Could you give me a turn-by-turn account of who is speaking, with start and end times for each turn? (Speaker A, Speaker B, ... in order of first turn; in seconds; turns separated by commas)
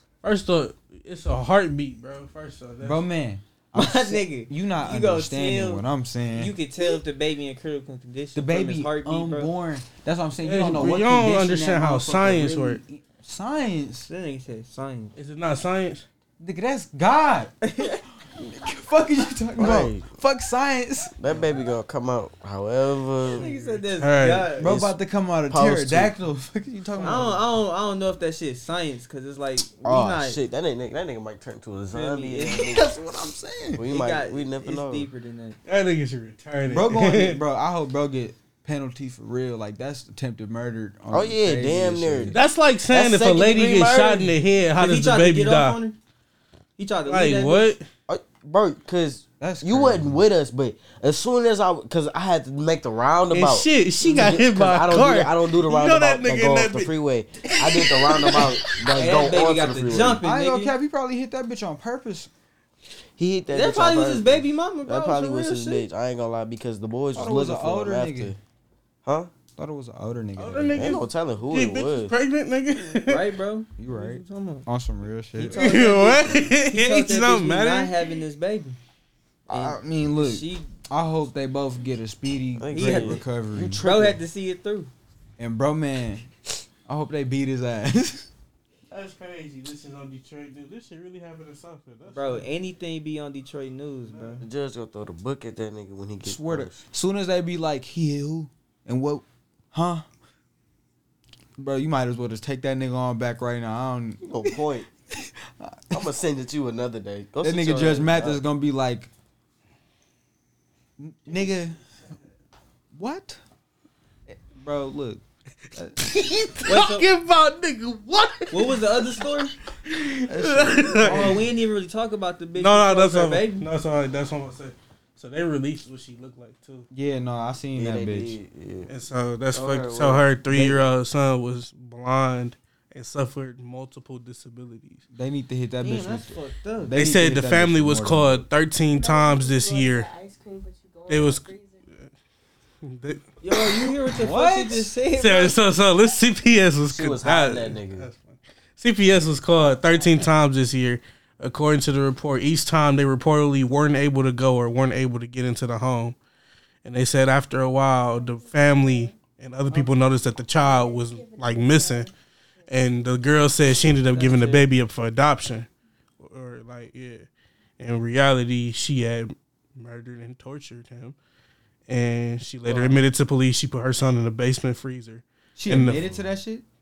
Speaker A: 0.2-3.0, Speaker B: 2.8-7.0, Speaker C: 3.8-9.5, Speaker B: 8.3-14.1, Speaker A: 10.4-12.8, Speaker C: 14.1-15.1, Speaker A: 15.2-16.1, Speaker B: 16.4-21.1, Speaker C: 17.7-18.0, Speaker D: 19.6-20.1, Speaker D: 21.1-23.5, Speaker C: 23.3-24.7, Speaker B: 23.4-23.7, Speaker A: 23.6-24.5, Speaker B: 24.6-27.4, Speaker D: 24.6-25.0, Speaker D: 25.5-26.1, Speaker C: 27.0-30.4, Speaker D: 29.8-32.9, Speaker C: 31.9-32.8, Speaker B: 32.5-33.9, Speaker D: 33.7-35.1, Speaker C: 33.8-35.6, Speaker A: 35.7-37.4, Speaker B: 36.7-42.4, Speaker D: 41.1-44.4, Speaker A: 42.3-45.8, Speaker C: 44.8-46.0, Speaker C: 46.8-47.7, Speaker A: 47.1-47.9, Speaker D: 48.1-60.2, Speaker B: 49.4-50.3, Speaker A: 53.3-56.9, Speaker A: 57.5-59.2, Speaker C: 58.9-60.7, Speaker B: 60.2-62.3, Speaker D: 63.2-68.4, Speaker C: 63.5-65.9, Speaker B: 67.2-68.3, Speaker D: 69.0-69.3, Speaker B: 69.6-71.0, Speaker A: 70.4-73.3, Speaker D: 70.7-72.1, Speaker C: 73.1-74.7, Speaker B: 73.8-75.7, Speaker C: 75.4-78.8, Speaker A: 75.5-78.1, Speaker C: 79.5-80.7, Speaker B: 79.5-83.8, Speaker D: 82.6-84.2, Speaker C: 82.7-83.2, Speaker C: 83.8-84.9, Speaker B: 85.4-86.3, Speaker B: 86.9-88.3, Speaker A: 88.9-92.5, Speaker C: 92.1-94.5, Speaker A: 94.1-94.4, Speaker D: 94.4-96.8, Speaker B: 96.2-100.0, Speaker B: 101.6-104.6, Speaker D: 104.2-104.9, Speaker B: 105.2-106.1, Speaker D: 105.9-108.4, Speaker B: 107.4-109.1, Speaker B: 111.0-111.8, Speaker B: 112.9-113.4, Speaker B: 114.3-115.2, Speaker B: 115.7-116.0, Speaker A: 116.0-119.3, Speaker C: 116.7-117.1, Speaker C: 118.5-119.5, Speaker A: 119.9-121.4, Speaker B: 120.3-121.5, Speaker C: 121.0-123.7, Speaker A: 122.6-126.9, Speaker B: 126.9-128.4, Speaker D: 127.8-128.9, Speaker A: 128.9-135.0, Speaker D: 129.5-130.8, Speaker B: 135.1-138.4, Speaker C: 135.8-136.9, Speaker A: 137.0-140.1, Speaker E: 138.9-141.8, Speaker A: 141.1-141.5, Speaker A: 142.8-143.9, Speaker C: 143.4-145.6, Speaker B: 144.2-144.9, Speaker A: 145.2-156.2, Speaker D: 146.9-148.1, Speaker A: 156.8-162.1, Speaker E: 158.0-159.2, Speaker E: 160.6-163.2, Speaker A: 162.7-165.7, Speaker C: 164.1-164.7, Speaker A: 166.2-167.3, Speaker A: 167.8-171.2, Speaker A: 171.9-176.0, Speaker B: 172.7-173.0, Speaker B: 175.6-176.7, Speaker D: 175.9-176.3